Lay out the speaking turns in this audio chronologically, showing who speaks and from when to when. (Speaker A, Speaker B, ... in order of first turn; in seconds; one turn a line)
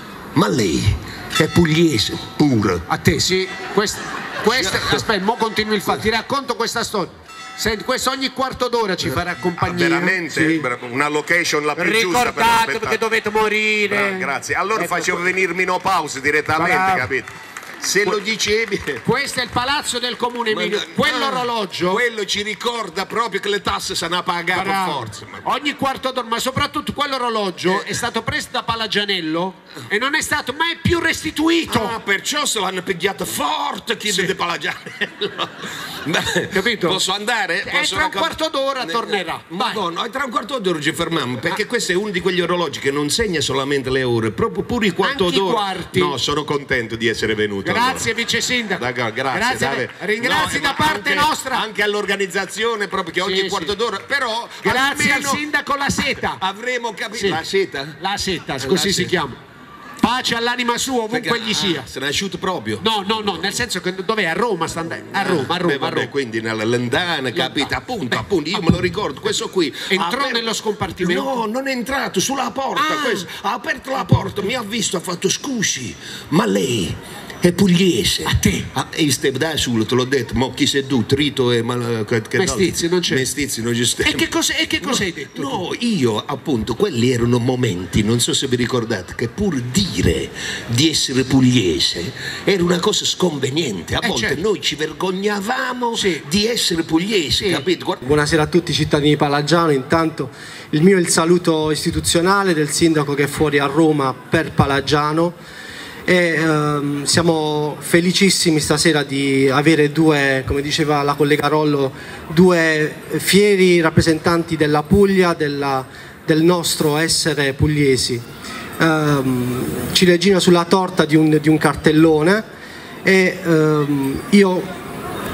Speaker A: 0.3-2.9
Speaker B: 2.9-10.7
Speaker A: 4.5-5.0
Speaker A: 9.0-13.0
Speaker B: 11.8-15.3
Speaker A: 13.9-19.0
Speaker B: 16.6-17.1
Speaker B: 19.0-22.0
Speaker A: 20.5-25.4
Speaker B: 24.5-32.0
Speaker A: 31.7-48.1
Speaker B: 34.1-34.3
Speaker B: 36.5-37.0
Speaker B: 37.6-39.9
Speaker B: 45.0-46.2
Speaker B: 47.6-51.6
Speaker A: 48.7-55.4
Speaker B: 53.2-53.7
Speaker B: 54.6-56.4
Speaker A: 56.4-58.0
Speaker B: 57.1-57.4
Speaker B: 58.0-59.4
Speaker A: 58.6-59.2
Speaker B: 60.0-61.9
Speaker A: 61.1-63.5
Speaker B: 62.8-66.1
Speaker A: 65.2-70.4
Speaker B: 67.3-67.7
Speaker B: 69.9-71.4
Speaker A: 71.0-84.3
Speaker B: 72.8-73.3
Speaker B: 74.0-74.4
Speaker B: 78.3-78.7
Speaker B: 82.4-83.3
Speaker B: 84.0-85.6
Speaker A: 84.8-98.0
Speaker B: 94.0-94.4
Speaker B: 95.9-96.2
Speaker B: 97.4-97.7
Speaker C: 98.0-105.4
Speaker C: 106.1-118.2
Speaker C: 118.8-122.4
Speaker C: 123.0-124.7